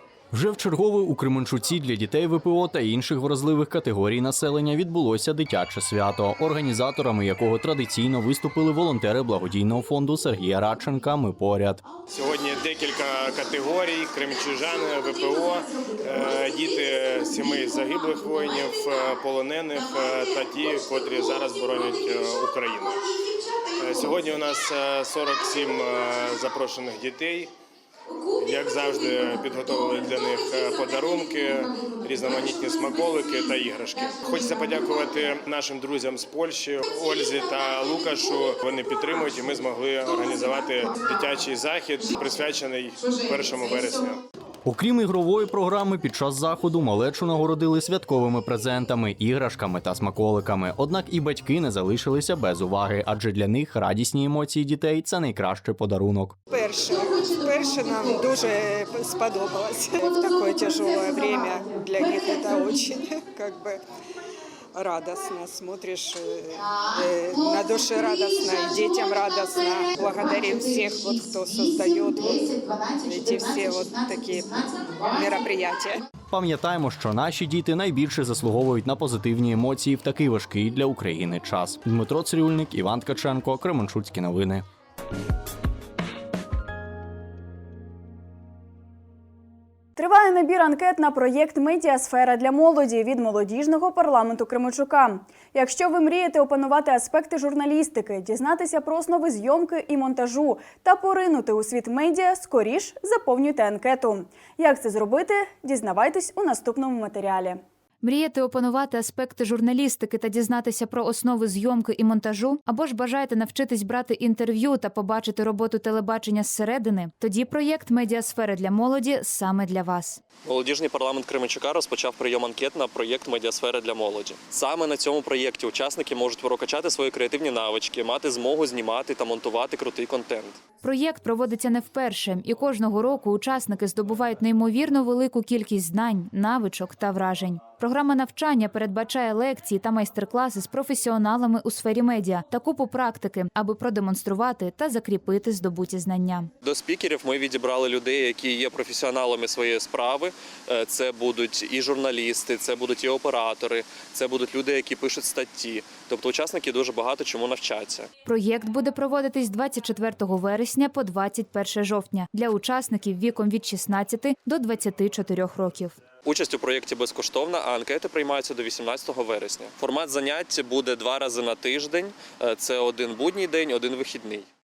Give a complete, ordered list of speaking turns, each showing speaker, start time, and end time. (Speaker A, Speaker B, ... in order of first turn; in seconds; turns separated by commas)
Speaker A: 0.3-11.9, Speaker B: 12.1-23.0, Speaker B: 23.8-27.5, Speaker B: 28.4-44.2, Speaker A: 44.6-56.4, Speaker C: 56.5-63.8, Speaker C: 64.7-76.0, Speaker A: 76.3-84.6, Speaker D: 90.0-107.6, Speaker E: 108.0-120.2, Speaker F: 120.5-130.6, Speaker E: 130.8-146.5, Speaker F: 146.6-158.1, Speaker E: 158.2-166.0, Speaker F: 166.2-174.5